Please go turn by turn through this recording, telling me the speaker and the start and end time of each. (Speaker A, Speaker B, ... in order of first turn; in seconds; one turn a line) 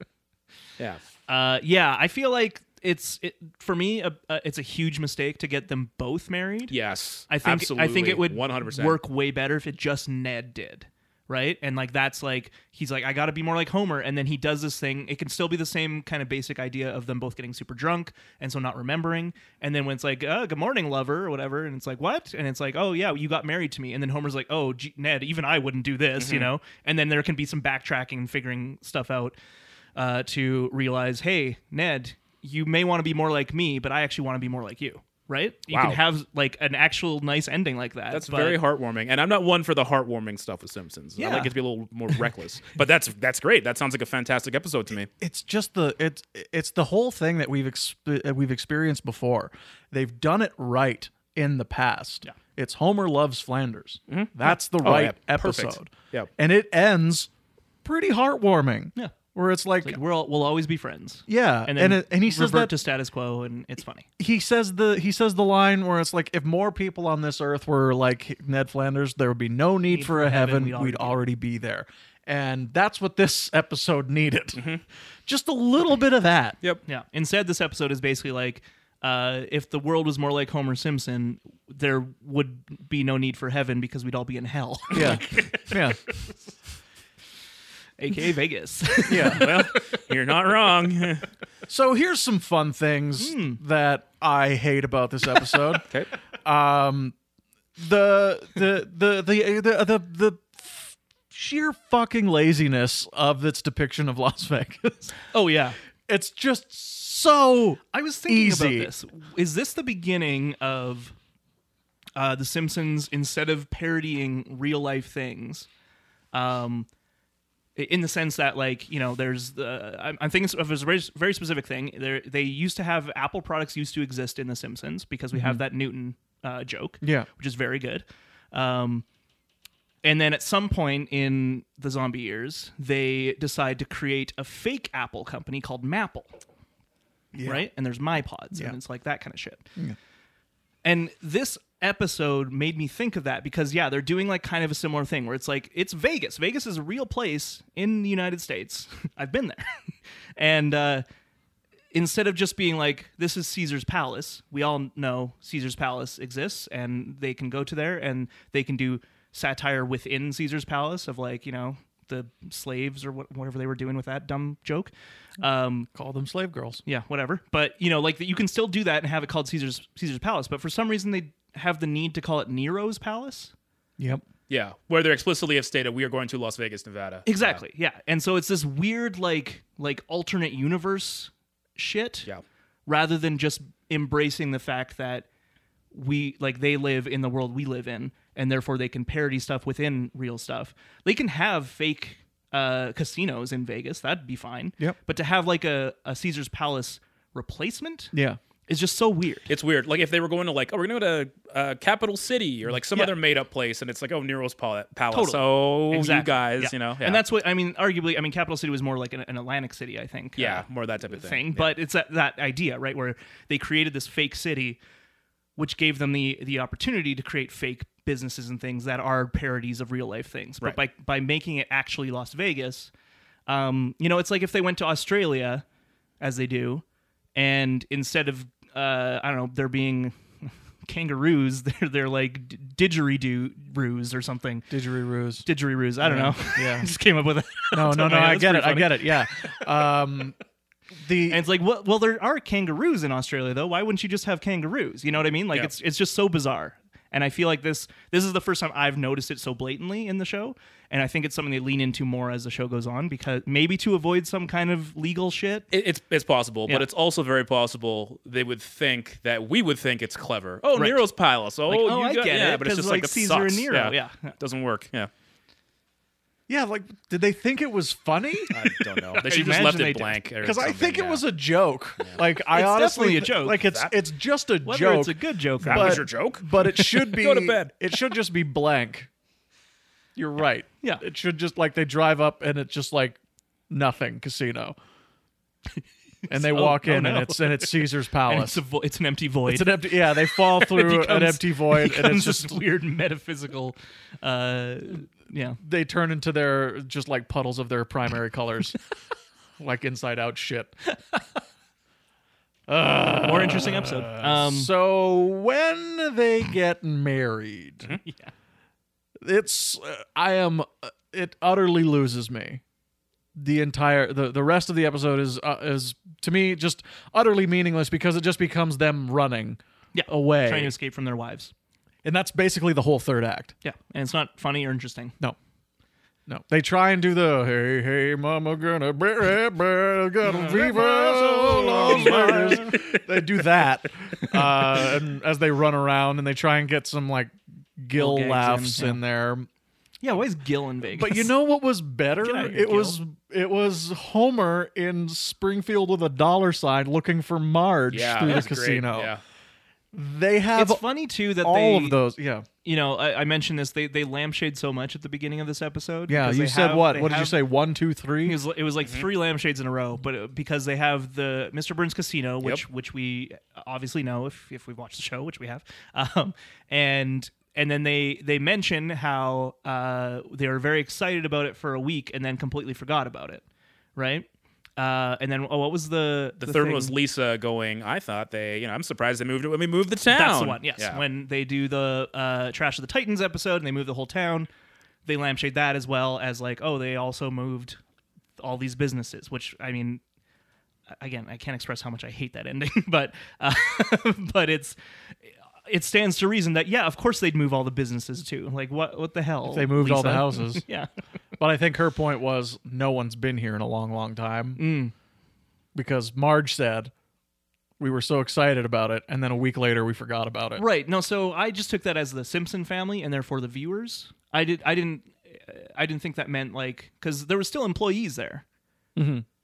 Speaker A: 0.8-1.0
Speaker B: 1.3-6.7
Speaker A: 6.7-9.0
Speaker B: 7.3-29.4
Speaker A: 26.2-26.5
Speaker B: 29.9-38.6
Speaker A: 35.7-36.0
Speaker A: 38.1-45.1
Speaker B: 41.2-41.5
Speaker C: 45.2-57.3
Speaker A: 54.1-56.3
Speaker C: 57.8-60.0
Speaker B: 59.8-64.1
Speaker C: 61.3-62.7
Speaker C: 64.2-74.6
Speaker B: 69.9-71.2
Speaker A: 74.5-74.8
Speaker C: 75.2-76.6
Speaker B: 76.8-85.8
Speaker C: 84.9-86.0
Speaker B: 88.0-90.0
Speaker C: 89.1-89.5
Speaker A: 89.2-91.3
Speaker C: 91.7-95.8
Speaker B: 93.2-93.6
Speaker C: 96.4-97.1
Speaker C: 97.8-105.2
Speaker B: 105.3-105.8
Speaker C: 106.1-108.9
Speaker B: 107.9-111.2
Speaker B: 112.2-115.7
Speaker B: 116.3-116.9
Speaker B: 117.8-129.0
Speaker C: 125.3-125.6
Speaker C: 127.0-127.3
Speaker B: 130.0-136.4
Speaker C: 137.3-137.6
Speaker B: 137.4-139.7
Speaker B: 140.8-151.0
Speaker B: 151.9-165.9
Speaker C: 165.9-166.8
Speaker B: 166.8-173.5
Speaker C: 174.0-174.2
Speaker A: 174.5-177.6
Speaker B: 177.2-182.3
Speaker B: 182.9-185.3
Speaker B: 185.9-198.1
Speaker C: 198.1-198.4
Speaker B: 198.7-199.5
Speaker A: 199.5-207.2
Speaker B: 205.1-214.8
Speaker A: 210.4-211.7
Speaker B: 215.6-222.9
Speaker B: 223.5-225.6
Speaker B: 226.2-226.8
Speaker B: 227.3-234.7
Speaker C: 234.7-235.4
Speaker B: 235.4-239.3
Speaker C: 236.0-236.9
Speaker C: 237.7-240.3
Speaker C: 241.0-241.5
Speaker B: 241.3-255.7
Speaker A: 255.7-265.1
Speaker B: 260.8-261.0
Speaker B: 261.7-264.3
Speaker C: 266.5-268.5
Speaker A: 268.5-271.2
Speaker B: 268.7-270.2
Speaker C: 270.4-279.1
Speaker B: 272.5-273.6
Speaker A: 273.6-273.9
Speaker B: 274.6-276.1
Speaker A: 275.6-277.8
Speaker C: 280.1-284.8
Speaker B: 286.2-295.6
Speaker C: 286.3-288.6
Speaker C: 289.5-292.6
Speaker C: 295.6-298.8
Speaker C: 299.6-300.8
Speaker C: 302.7-308.0
Speaker B: 303.2-304.7
Speaker B: 308.0-308.3
Speaker C: 309.2-312.6
Speaker C: 313.4-320.7
Speaker B: 319.9-321.5
Speaker C: 322.0-323.5
Speaker B: 323.6-325.2
Speaker C: 326.3-339.5
Speaker B: 330.2-332.9
Speaker A: 332.1-333.0
Speaker B: 337.9-339.0
Speaker B: 340.0-341.3
Speaker C: 340.8-349.1
Speaker B: 342.2-343.0
Speaker A: 347.9-349.2
Speaker C: 349.9-350.8
Speaker B: 350.5-352.0
Speaker C: 351.4-352.4
Speaker B: 352.6-357.4
Speaker C: 356.1-358.4
Speaker B: 358.2-373.4
Speaker B: 373.9-376.9
Speaker A: 376.4-381.0
Speaker B: 380.1-384.5
Speaker B: 385.0-387.8
Speaker B: 388.4-390.0
Speaker B: 390.9-394.8
Speaker B: 395.3-400.9
Speaker C: 399.5-400.6
Speaker C: 401.4-404.6
Speaker B: 404.6-404.9
Speaker C: 405.7-406.9
Speaker C: 407.8-410.6
Speaker B: 410.6-418.4
Speaker C: 418.9-419.2